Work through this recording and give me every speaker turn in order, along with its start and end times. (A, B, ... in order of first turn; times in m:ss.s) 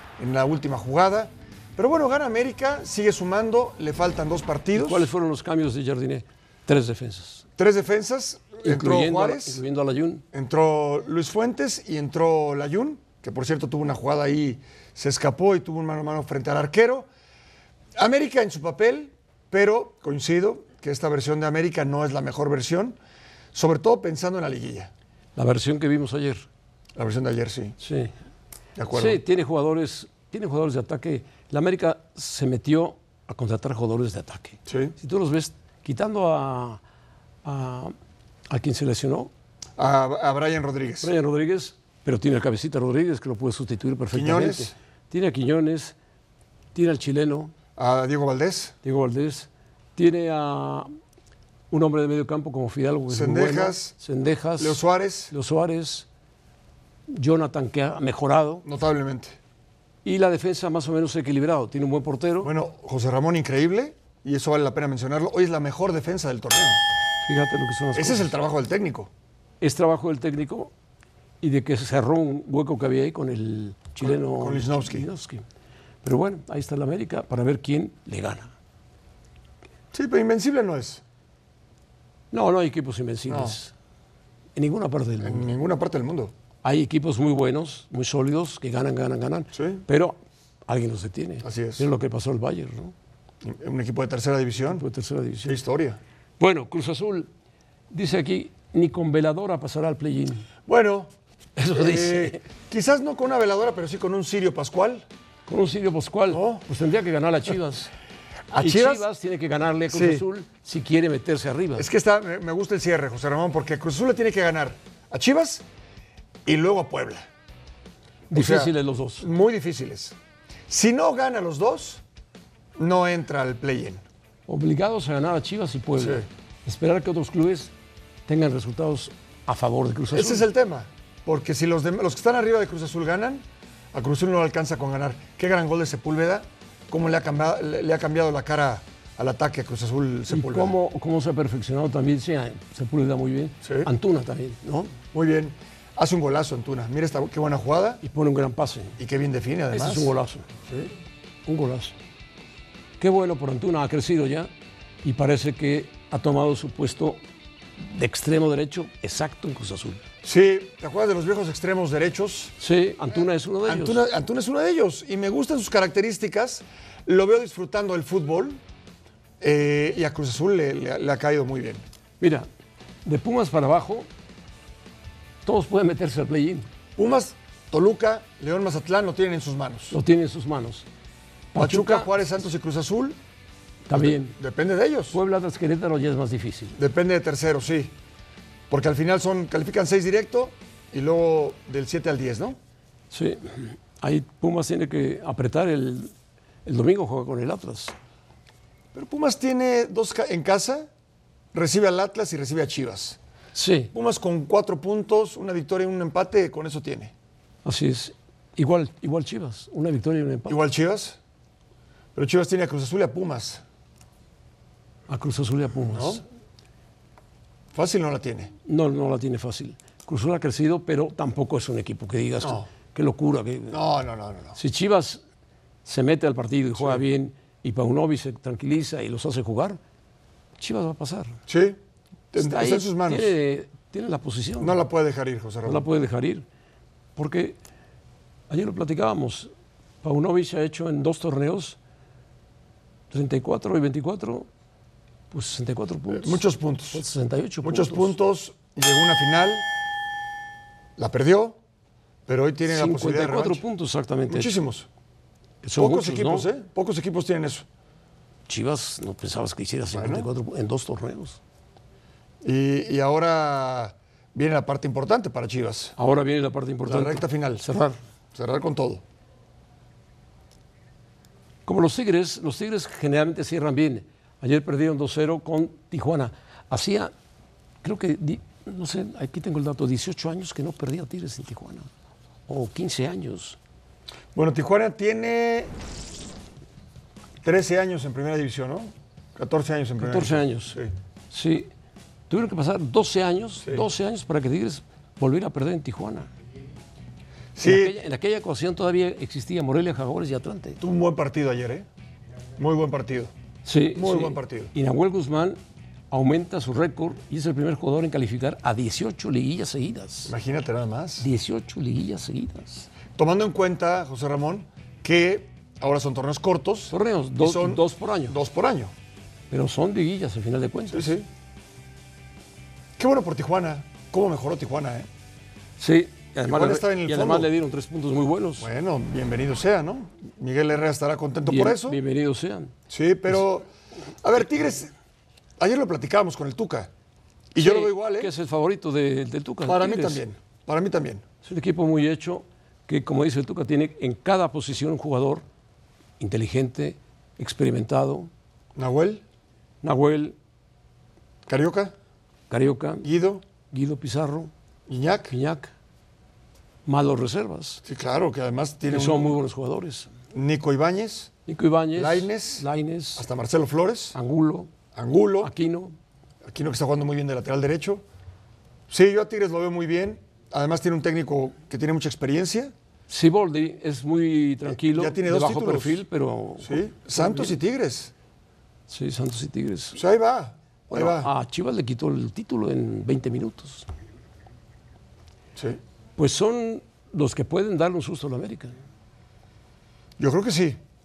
0:00.2-0:05.1 A
0:04.7-0:07.4 B
0:07.6-0:09.6 A
0:08.6-0:10.2 B
0:10.3-0:17.1 A
0:18.0-0:23.0 A
0:23.5-0:24.9 A
0:25.4-0:26.5 B
0:27.0-0:27.8 A
0:27.8-0:28.1 B
0:28.8-0:29.2 A
0:28.9-0:36.8 B
0:34.7-0:35.0 A
0:37.4-0:38.0 B
0:38.5-0:39.3 B
0:39.8-0:41.1 A
0:41.0-0:46.0 B
0:44.1-0:44.7 A
0:46.7-0:47.5 B
0:47.8-0:48.7 A
0:48.8-0:50.9 B
0:51.7-0:56.1 B
0:53.1-0:53.9 A
0:54.6-0:55.3 A
0:57.1-0:58.7 B
0:58.6-0:59.4 A
1:00.0-1:02.5 B
1:02.4-1:06.8 A
1:07.2-1:08.3 B
1:08.0-1:09.1 A
1:09.6-1:10.7 B
1:11.4-1:15.4 B
1:14.0-1:15.1 A
1:16.0-1:18.5 B
1:19.9-1:21.0 A
1:22.3-1:23.7 B
1:23.3-1:23.6 A
1:24.6-1:25.5 B
1:25.2-1:26.3 A
1:26.6-1:32.9 B
1:29.5-1:29.8 A
1:31.4-1:31.9 A
1:33.4-1:34.8 A
1:34.7-1:35.6 B
1:35.4-1:36.0 A
1:36.4-1:37.3 B
1:37.9-1:40.5 B
1:40.7-1:41.1 A
1:41.6-1:42.4 B
1:41.7-1:45.1 A
1:45.5-1:47.9 B
1:46.3-1:46.6 A
1:48.5-1:49.1 A
1:48.6-1:51.9 B
1:49.9-1:50.2 A
1:51.8-1:55.6 A
1:56.4-1:57.3 A
1:58.3-1:59.3 B
1:58.3-2:00.2 A
2:00.7-2:02.0 A
2:02.8-2:04.0 A
2:04.5-2:07.7 B
2:06.0-2:06.3 A
2:08.3-2:10.5 B
2:10.1-2:20.8 A
2:20.3-2:25.0 B
2:23.6-2:23.9 A
2:25.1-2:28.0 A
2:28.0-2:29.0 B
2:29.0-2:30.1 A
2:29.7-2:30.5 B
2:31.5-2:32.0 B
2:33.0-2:34.5 B
2:35.0-2:37.2 B
2:37.8-2:40.0 B
2:40.2-2:42.6 A
2:42.6-2:44.0 B
2:43.6-2:48.6 A
2:49.4-2:51.8 A
2:52.2-2:52.5 B
2:53.0-2:54.1 B
2:55.4-2:56.7 B
2:57.0-3:00.0 A
2:59.9-3:00.9 B
3:01.5-3:02.1 B
3:01.6-3:03.2 A
3:03.9-3:04.4 B
3:03.9-3:05.2 A
3:05.1-3:06.8 B
3:06.8-3:07.9 A
3:08.7-3:12.6 A
3:13.1-3:16.1 B
3:16.6-3:18.0 B
3:18.9-3:20.9 A
3:21.5-3:23.2 A
3:23.6-3:23.9 B
3:23.9-3:27.1 A
3:27.6-3:30.6 B
3:30.5-3:31.2 A
3:32.2-3:33.6 A
3:35.1-3:36.2 B
3:35.9-3:36.2 A
3:37.7-3:38.5 A
3:38.7-3:43.8 B
3:42.4-3:42.7 A
3:43.7-3:44.6 A
3:44.6-3:45.2 B
3:45.8-3:49.8 B
3:46.8-3:47.0 A
3:50.6-3:51.4 B
3:51.5-3:51.8 A
3:52.3-3:53.3 A
3:52.4-3:54.8 B
3:54.6-3:55.9 A
3:55.6-3:56.4 B
3:57.2-3:57.6 B
3:58.5-3:59.5 B
4:00.0-4:01.8 B
4:03.1-4:04.5 B
4:05.3-4:08.2 B
4:06.1-4:07.0 A
4:07.6-4:09.7 A
4:11.0-4:11.6 A
4:12.3-4:13.6 A
4:12.7-4:14.5 B
4:14.3-4:14.9 A
4:15.6-4:16.5 B
4:15.8-4:17.7 A
4:18.5-4:21.4 B
4:19.9-4:20.3 A
4:22.4-4:25.9 A
4:26.0-4:28.0 B
4:26.8-4:27.7 A
4:28.3-4:29.0 A
4:31.7-4:37.1 B
4:37.8-4:41.9 B
4:42.5-4:43.6 B
4:44.3-4:45.7 A
4:47.4-4:50.9 A
4:50.0-4:50.8 B
4:51.3-4:51.7 B
4:52.3-4:56.3 B
4:57.6-4:58.0 A
4:57.6-5:00.8 B
5:00.8-5:01.9 A
5:02.6-5:03.3 A
5:03.6-5:05.6 B
5:04.0-5:04.7 A
5:06.1-5:10.3 B
5:10.3-5:11.3 A
5:11.2-5:12.9 B
5:13.2-5:18.9 A
5:16.9-5:18.4 B
5:19.5-5:21.1 B
5:20.9-5:21.3 A
5:23.0-5:25.1 A
5:25.8-5:28.7 B
5:26.4-5:27.5 A
5:28.6-5:32.0 A
5:31.5-5:32.7 B
5:32.9-5:33.7 A
5:34.2-5:34.9 A
5:35.6-5:36.9 A
5:37.5-5:38.3 A
5:37.6-5:40.2 B
5:39.6-5:41.2 A
5:41.4-5:45.4 B
5:46.2-5:48.3 B
5:48.8-5:49.2 A
5:49.8-5:50.4 B
5:51.5-5:51.9 A
5:52.5-5:53.1 B
5:53.0-5:53.4 A
5:53.7-5:54.5 B
5:54.9-5:55.3 A
5:55.3-5:55.7 B
5:56.9-5:57.8 B
5:57.8-5:59.4 A
5:58.9-6:00.1 B
6:00.3-6:01.3 A
6:01.5-6:03.3 B
6:02.0-6:04.2 A
6:04.1-6:04.7 B
6:04.9-6:05.5 A
6:05.4-6:06.0 B
6:06.4-6:08.0 A
6:08.9-6:12.7 A
6:13.1-6:17.6 B
6:14.7-6:16.0 A
6:16.6-6:18.1 A
6:18.9-6:20.0 B
6:20.0-6:21.3 A
6:20.9-6:23.9 B
6:26.2-6:28.8 B
6:30.2-6:30.8 A